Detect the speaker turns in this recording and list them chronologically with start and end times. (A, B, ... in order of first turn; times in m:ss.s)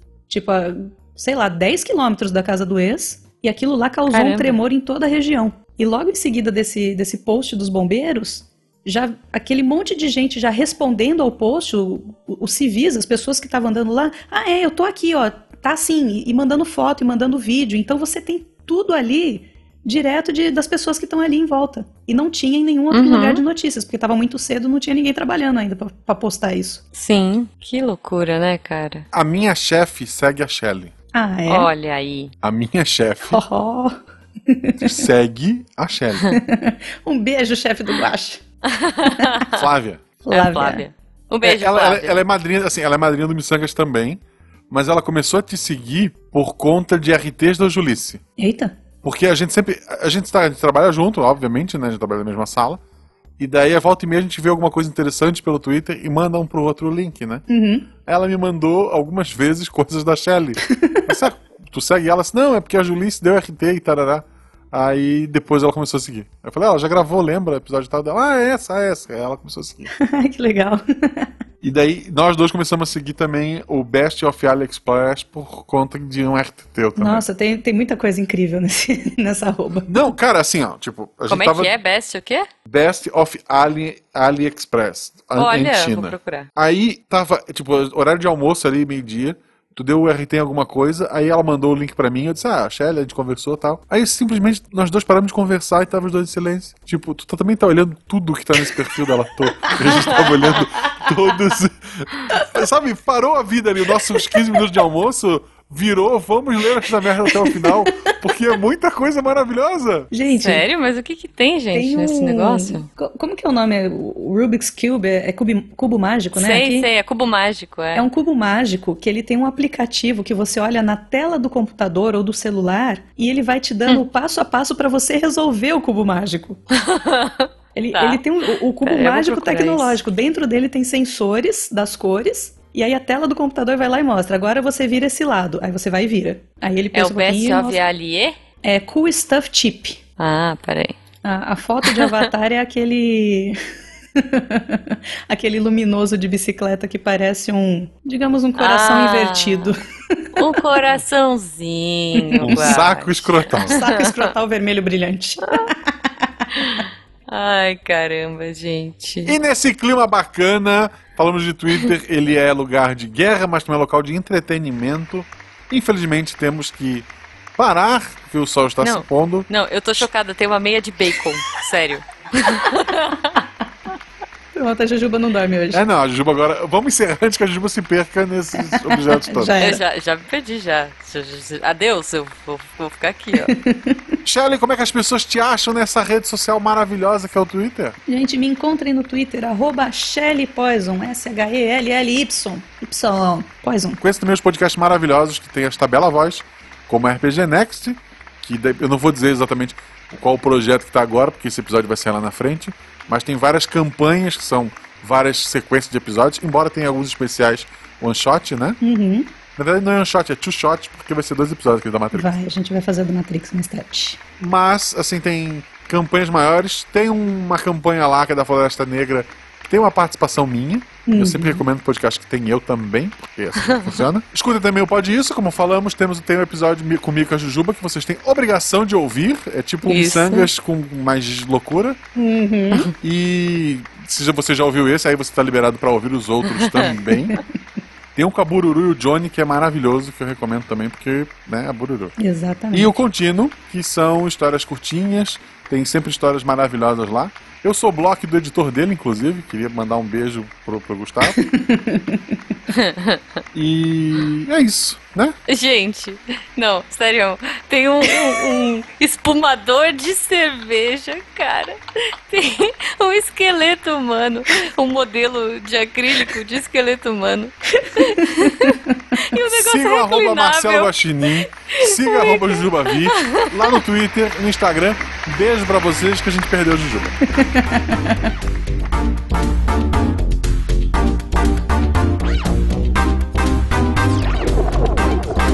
0:00.3-0:26.8 A
0:04.1-0:04.6 B
0:22.9-0:23.4 B
0:26.9-0:29.0 B
0:29.1-0:30.9 C
0:31.1-0:31.7 A
0:31.5-0:32.3 B
0:32.4-0:33.4 C
0:33.3-0:35.1 A
0:34.8-0:36.3 C
0:36.3-0:38.4 A
0:38.6-0:39.6 B
0:39.0-0:39.4 A
0:39.6-0:40.0 C
0:40.2-0:40.8 A
0:40.3-0:42.2 B
0:41.4-0:48.2 C
0:48.4-0:48.8 A
0:49.0-0:52.8 C
0:53.4-0:57.4 C
0:57.5-0:57.9 A
0:58.0-1:09.9 C
1:00.7-1:01.1 A
1:09.9-1:11.3 A
1:11.6-1:17.2 C
1:17.0-1:20.0 A
1:19.9-1:21.7 C
1:21.3-1:22.5 B
1:22.7-1:50.1 C
1:25.4-1:26.5 B
1:39.6-1:40.1 A
1:44.2-1:44.6 A
1:47.2-1:48.1 A
1:50.1-1:50.6 A
1:50.4-1:52.9 B
1:51.7-1:56.9 A
1:56.4-1:58.1 B
1:58.0-2:06.6 A
2:06.8-2:10.0 B
2:07.8-2:17.8 A
2:16.9-2:18.4 B
2:18.6-2:20.0 A
2:20.2-2:21.0 B
2:21.2-2:23.6 A
2:21.8-2:22.3 B
2:24.2-2:30.6 A
2:28.6-2:29.7 B
2:30.4-2:34.2 B
2:32.2-2:32.8 A
2:32.4-2:33.8 C
2:33.7-2:36.8 A
2:35.4-2:35.7 B
2:36.6-2:39.4 B
2:39.3-2:49.5 C
2:48.8-2:53.4 B
2:52.6-2:52.9 A
2:54.6-2:55.8 A
2:55.7-2:59.5 C
2:58.7-2:59.8 A
2:59.6-3:03.5 B
3:03.3-3:04.1 A
3:04.2-3:08.0 C
3:08.1-3:14.0 A
3:14.0-3:28.8 C
3:28.8-3:29.3 A
3:29.6-3:32.3 C
3:32.1-3:34.2 A
3:34.4-3:52.0 C
3:41.1-3:41.6 A
3:43.6-3:44.0 B
3:49.8-3:50.5 B
3:52.2-3:52.9 A
3:53.0-3:57.4 C
3:56.5-3:57.0 B
3:58.2-4:02.2 C
4:02.2-4:03.0 A
4:02.7-4:11.4 C
4:11.4-4:12.4 A
4:12.7-4:13.2 B
4:13.6-4:15.4 C
4:15.5-4:33.8 B
4:27.8-4:29.1 A
4:29.5-4:37.2 C
4:37.3-4:38.2 A